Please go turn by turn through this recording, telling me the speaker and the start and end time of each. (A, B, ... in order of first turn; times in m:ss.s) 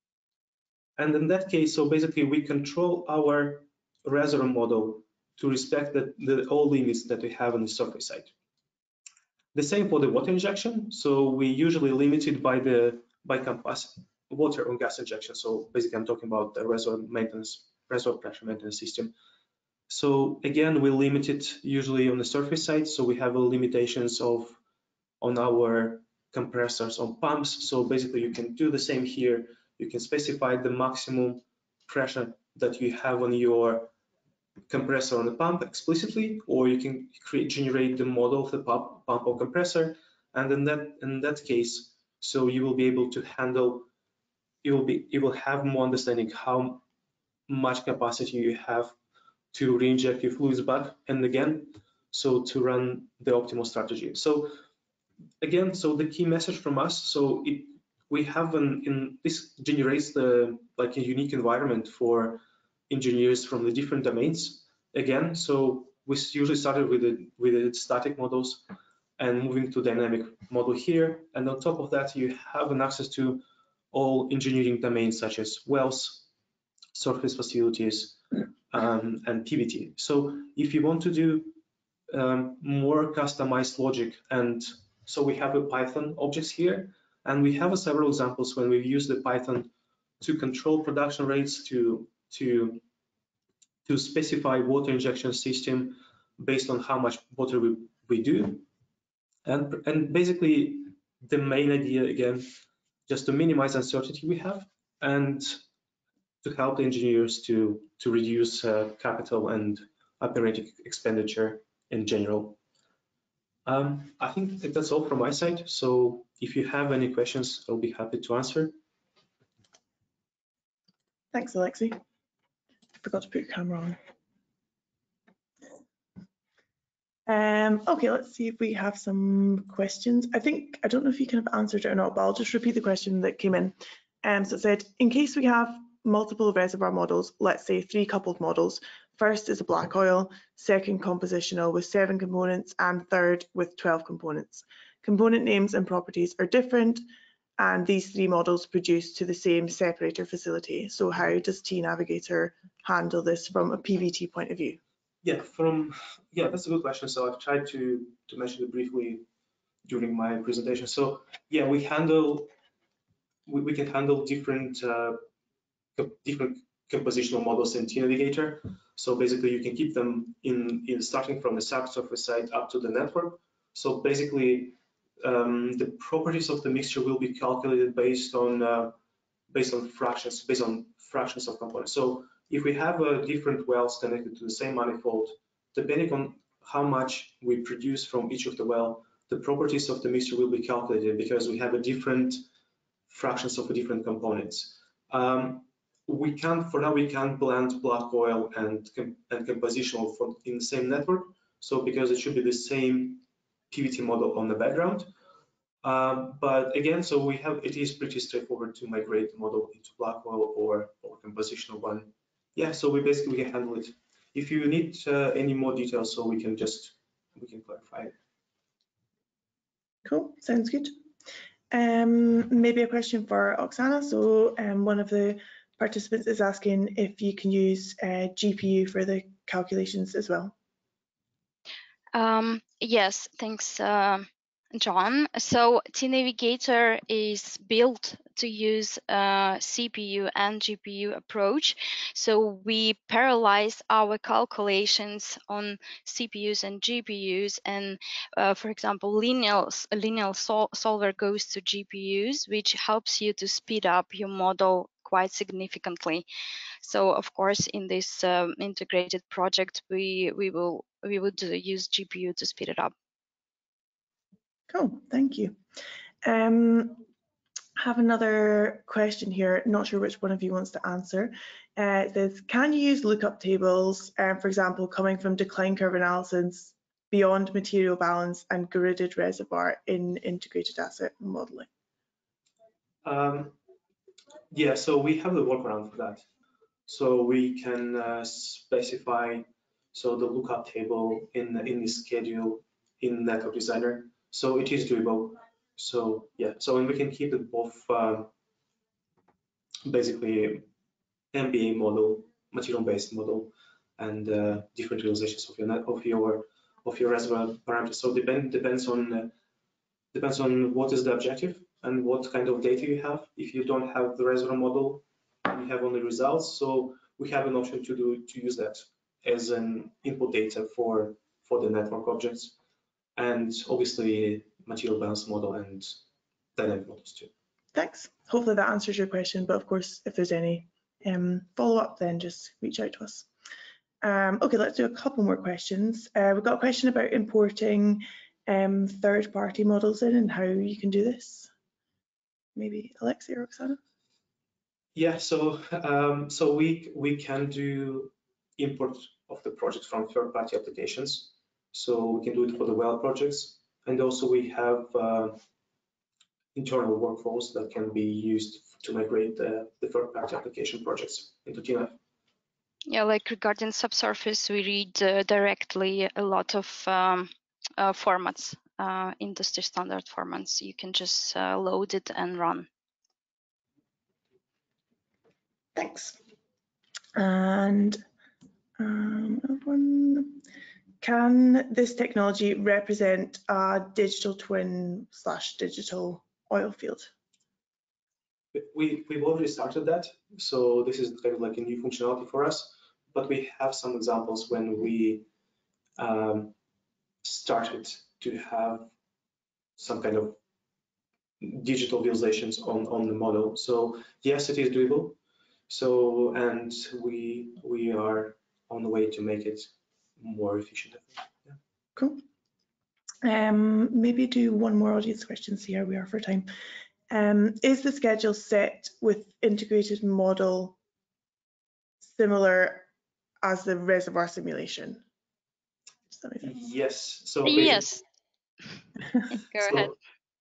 0:01.0-0:08.3 A
0:09.5-0:19.1 A
0:19.9-0:24.6 A
0:25.2-0:33.9 A
0:34.7-0:43.9 A
0:44.6-0:46.8 A
0:47.5-0:48.9 A
0:49.5-0:54.6 A
0:55.4-1:08.6 A
1:09.2-1:16.3 A
1:16.9-1:21.6 A
1:22.1-1:32.8 A
1:33.9-1:38.7 A
1:39.4-1:42.5 A
1:43.1-1:45.6 A
1:46.4-1:52.6 A
1:53.7-1:58.8 A
2:01.3-2:02.0 B
2:03.0-2:04.0 B
2:07.3-2:27.0 B
2:27.6-2:34.8 B
2:35.2-2:39.2 A
2:39.9-2:42.5 A
2:43.5-2:45.2 A
2:46.0-2:59.0 A
2:59.5-3:12.4 A
3:13.1-3:25.1 A
3:25.8-3:38.1 A
3:40.0-3:40.9 B
3:41.7-3:50.5 B
3:52.1-4:16.2 C
4:16.8-4:22.9 C
4:24.7-4:25.6 B
4:26.2-4:27.0 B
4:27.8-4:41.7 B
4:43.0-4:43.6 A
4:44.5-4:46.2 A
4:46.9-4:58.3 A
4:59.8-5:00.6 A
5:01.3-5:09.3 A
5:10.1-5:22.5 A
5:23.2-5:26.0 A
5:26.6-5:27.3 A
5:27.7-5:33.3 B
5:34.0-5:41.5 B
5:42.6-5:43.8 B
5:45.0-5:55.4 A
5:56.6-6:02.0 A
6:02.9-6:12.7 C
6:15.8-6:16.2 B
6:17.2-6:18.0 B
6:18.8-6:20.4 B
6:21.0-6:27.1 B
6:28.5-6:35.3 A
6:36.0-6:36.6 A
6:37.2-6:38.9 A
6:39.8-6:40.4 A
6:41.4-6:45.2 A
6:45.7-6:51.6 A
6:52.0-6:52.2 B
6:53.2-6:56.5 B
6:57.1-7:00.8 B
7:02.0-7:02.9 B
7:03.4-7:05.0 B
7:06.1-7:06.5 B
7:06.4-7:07.9 A
7:07.4-7:08.0 C
7:09.3-7:09.9 C
7:09.6-7:09.9 A